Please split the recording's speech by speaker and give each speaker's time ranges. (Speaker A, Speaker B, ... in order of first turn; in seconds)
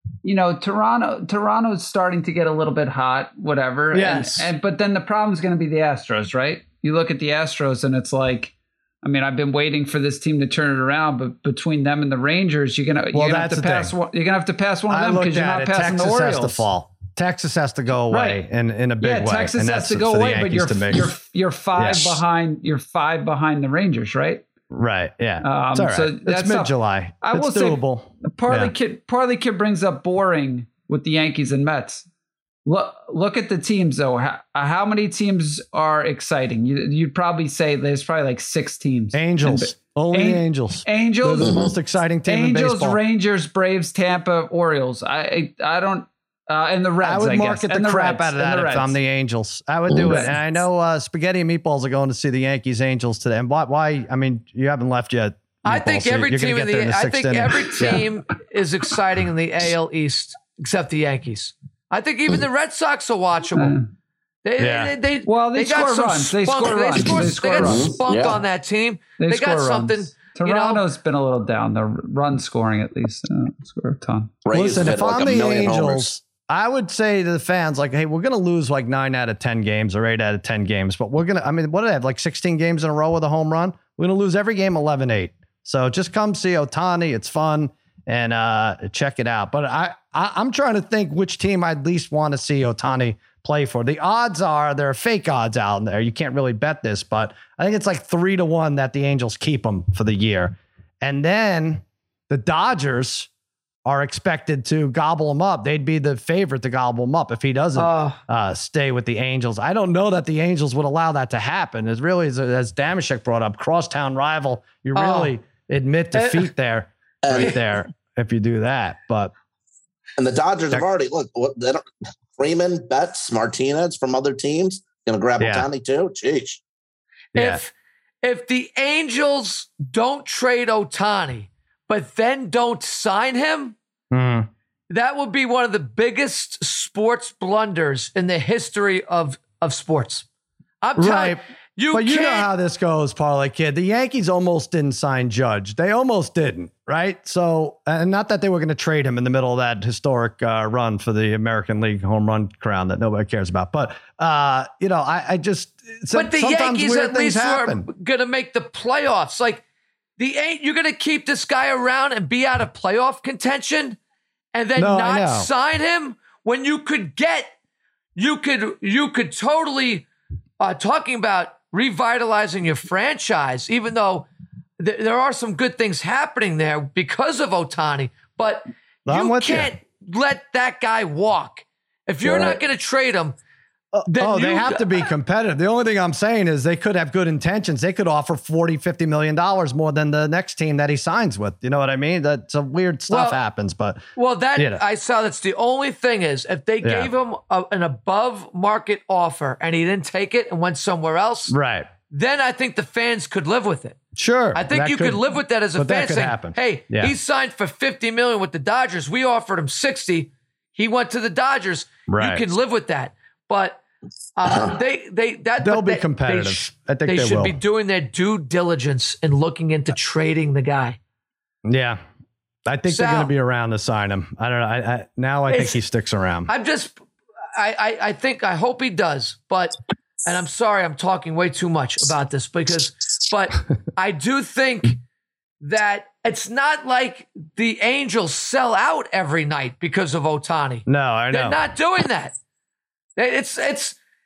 Speaker A: 0.2-16.6, 18.1-18.4, 19.0-24.4, 25.4-32.0, 32.6-41.6, 42.2-49.0, 50.1-50.3, 63.6-63.9, 65.2-68.0, 69.2-74.3
Speaker B: 3.9-4.5, 13.1-13.9, 14.9-21.1, 21.8-22.2, 24.7-28.7, 39.1-43.0, 47.0-58.0, 64.6-64.9, 74.5-103.3, 103.8-119.3, 125.4-125.7, 127.3-127.6, 134.1-134.5, 140.9-157.9, 164.8-165.5, 179.1-179.7, 182.3-182.5, 183.9-194.0, 194.6-194.8, 196.8-197.1, 201.5-201.9, 204.1-205.2, 205.7-207.1, 212.1-212.4, 215.6-217.6, 221.7-222.0, 222.7-226.5, 240.8-241.6
Speaker C: 41.4-41.7, 49.9-50.2, 67.0-68.4, 74.4-76.1, 117.2-117.6, 120.2-126.6, 214.5-214.7
Speaker D: 55.6-63.8, 64.4-70.8, 107.8-108.2, 114.9-115.4, 116.1-116.5, 127.3-127.7, 128.2-133.8, 134.9-140.2, 140.8-142.5, 156.1-159.6, 160.2-164.0, 164.5-167.5, 168.2-170.1, 170.6-174.3, 174.8-183.4, 184.1-185.1, 193.1-193.4, 194.2-201.5, 202.1-204.0, 204.5-213.8, 214.4-221.0, 222.9-223.3, 225.5-225.8, 226.5-227.0, 227.5-235.0, 235.6-242.3, 243.2-243.9